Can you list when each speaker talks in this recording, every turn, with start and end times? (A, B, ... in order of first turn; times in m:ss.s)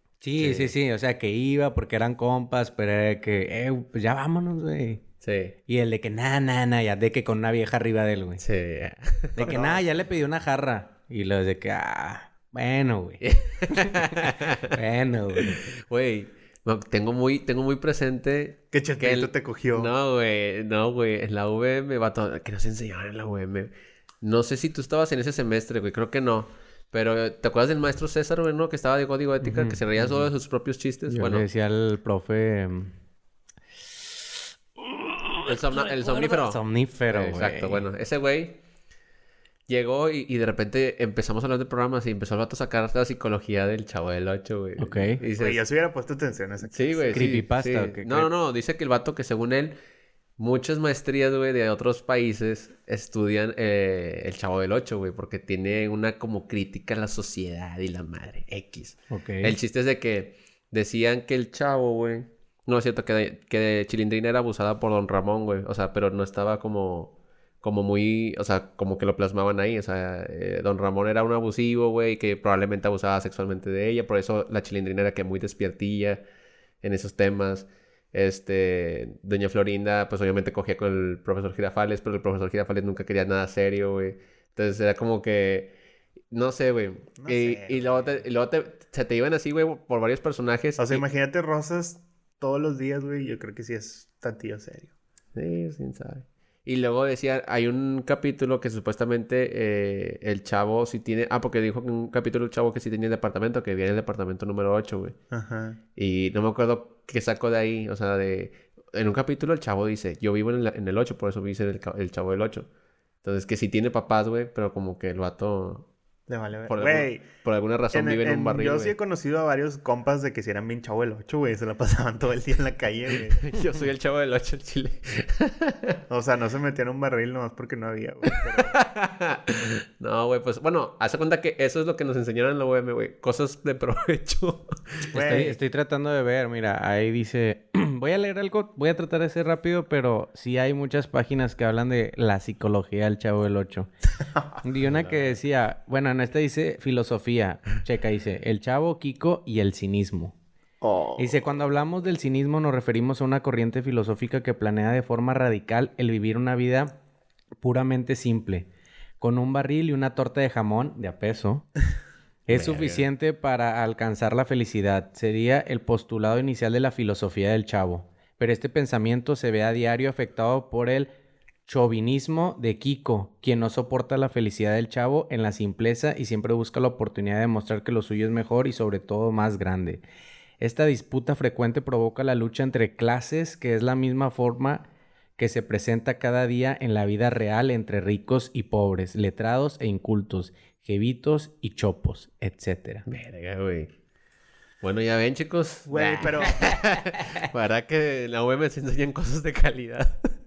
0:00.2-0:05.0 A
0:00.4-0:00.7 B
0:05.2-0:05.6 B
0:05.7-0:08.4 A
0:08.4-0:09.6 B
0:09.4-0:09.8 C
0:09.4-0:15.6 A
0:13.2-0:14.8 B
0:15.4-0:31.4 B
0:18.7-0:19.9 C
0:29.4-0:30.3 A
0:31.1-0:32.9 A
0:34.8-0:37.9 A
0:35.5-0:38.6 B
0:39.7-0:45.6 B
0:44.8-0:45.2 A
0:45.3-0:47.3 C
0:46.7-0:49.8 B
0:47.1-0:48.3 A
0:50.4-1:16.2 B
0:59.1-0:59.6 A
1:16.8-1:25.8 B
1:26.3-1:31.0 B
1:27.2-1:28.2 C
1:30.8-1:34.9 C
1:35.4-1:45.2 B
1:45.3-1:45.8 C
1:46.0-1:52.7 B
1:53.2-1:55.9 B
1:56.3-1:57.3 C
1:56.7-1:58.9 B
1:57.9-2:03.6 C
2:03.3-2:06.0 B
2:06.1-2:08.8 C
2:08.3-2:15.5 B
2:15.1-2:23.9 A
2:15.1-2:15.6 C
2:24.3-2:24.6 C
2:24.6-2:30.4 A
2:24.9-2:25.4 B
2:30.8-2:31.4 C
2:31.2-2:36.9 A
2:37.6-2:38.7 A
2:39.2-2:41.7 A
2:42.5-2:51.1 A
2:42.5-2:43.1 B
2:51.7-3:00.0 A
3:00.6-3:04.8 A
3:05.4-3:13.0 A
3:13.1-3:13.9 B
3:14.8-3:20.2 B
3:15.9-3:16.7 C